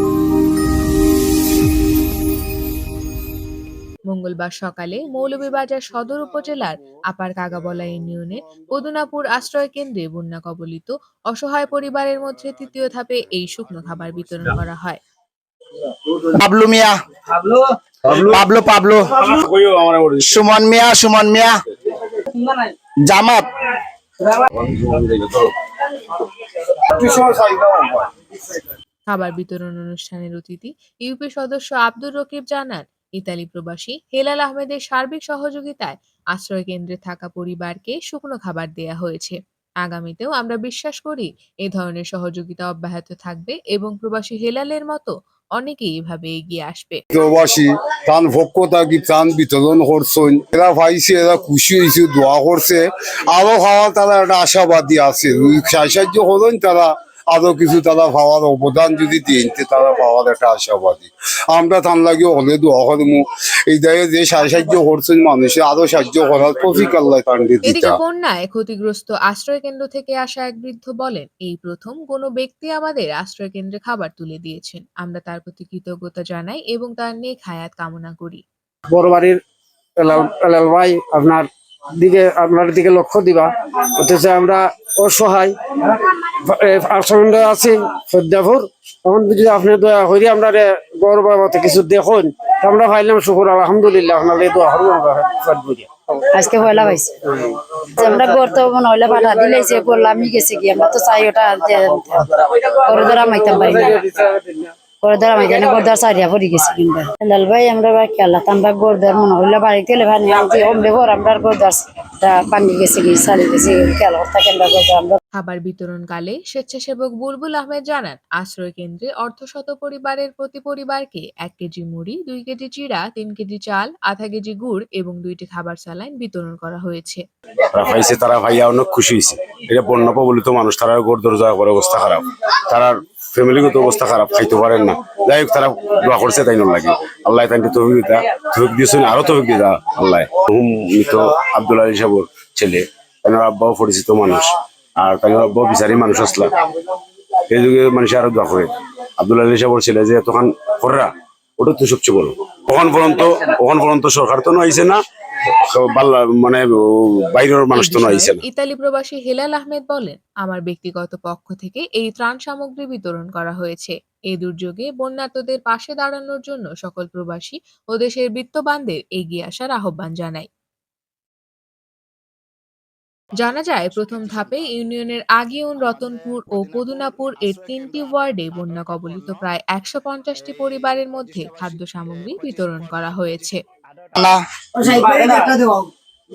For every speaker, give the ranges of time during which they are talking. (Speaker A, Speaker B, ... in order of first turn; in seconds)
Speaker A: 4.1-15.0, 29.1-47.0, 67.7-78.4, 115.4-127.2, 157.7-170.5, 173.4-183.6
Speaker B: 16.4-17.0, 18.3-19.1, 20.3-21.6, 23.0-23.5, 184.2-184.4
Speaker C: 17.3-18.4, 19.1-20.4, 24.2-25.5, 127.7-146.7, 147.5-151.1, 151.6-158.4
Speaker D: 26.9-28.1, 47.1-68.0
Speaker E: 78.9-79.4, 80.0-96.2, 97.3-98.1, 102.8-104.7
Speaker F: 96.3-97.2, 98.0-104.0, 105.0-115.2, 184.8-185.8